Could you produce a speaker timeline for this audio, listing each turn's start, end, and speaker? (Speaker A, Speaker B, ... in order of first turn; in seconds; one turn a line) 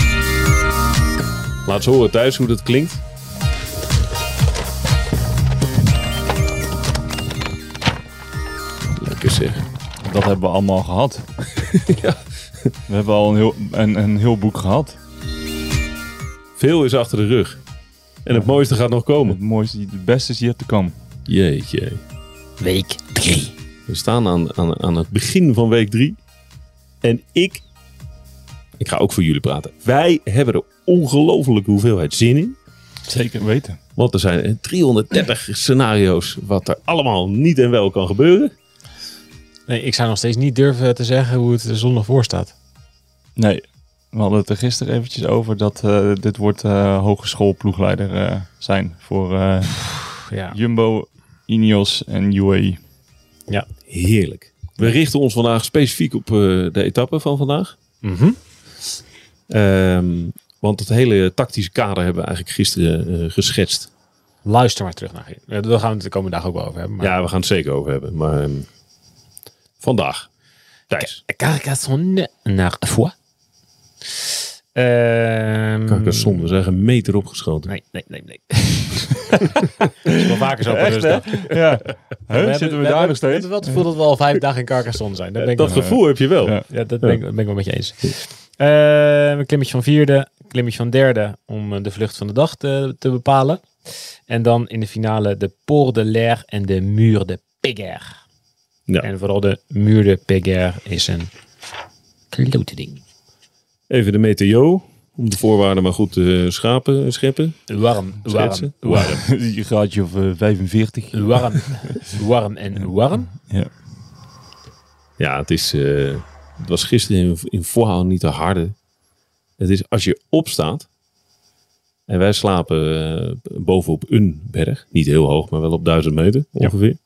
Speaker A: 1.6-3.0
Speaker A: 8.9-9.7
Speaker B: 10.0-11.2
Speaker A: 11.6-12.7
Speaker B: 12.9-15.0
Speaker A: 16.6-17.6
Speaker A: 18.2-19.4
Speaker B: 19.2-20.9
Speaker A: 21.3-22.0
Speaker C: 22.6-23.5
Speaker A: 23.9-26.2
Speaker A: 27.0-27.6
Speaker A: 28.8-32.6
Speaker B: 33.0-33.8
Speaker A: 34.0-38.5
Speaker C: 39.7-42.5
Speaker B: 43.4-52.8
Speaker C: 50.2-50.6
Speaker A: 53.9-57.8
Speaker C: 58.0-58.4
Speaker A: 59.5-63.9
Speaker C: 64.4-67.1
Speaker A: 67.0-68.7
Speaker A: 69.8-70.3
Speaker A: 70.9-71.2
Speaker C: 70.9-73.1
Speaker C: 74.2-76.4
Speaker A: 75.9-77.7
Speaker C: 77.7-79.4
Speaker C: 80.0-81.5
Speaker B: 80.1-83.8
Speaker C: 82.3-85.9
Speaker A: 85.4-87.2
Speaker B: 85.7-86.6
Speaker C: 86.7-98.2
Speaker C: 99.0-101.3
Speaker C: 102.3-103.0
Speaker A: 103.9-107.6
Speaker C: 107.7-109.2
Speaker A: 108.2-109.2
Speaker B: 108.8-111.7
Speaker C: 111.1-113.3
Speaker A: 115.2-118.7
Speaker A: 119.6-120.8
Speaker A: 122.1-127.0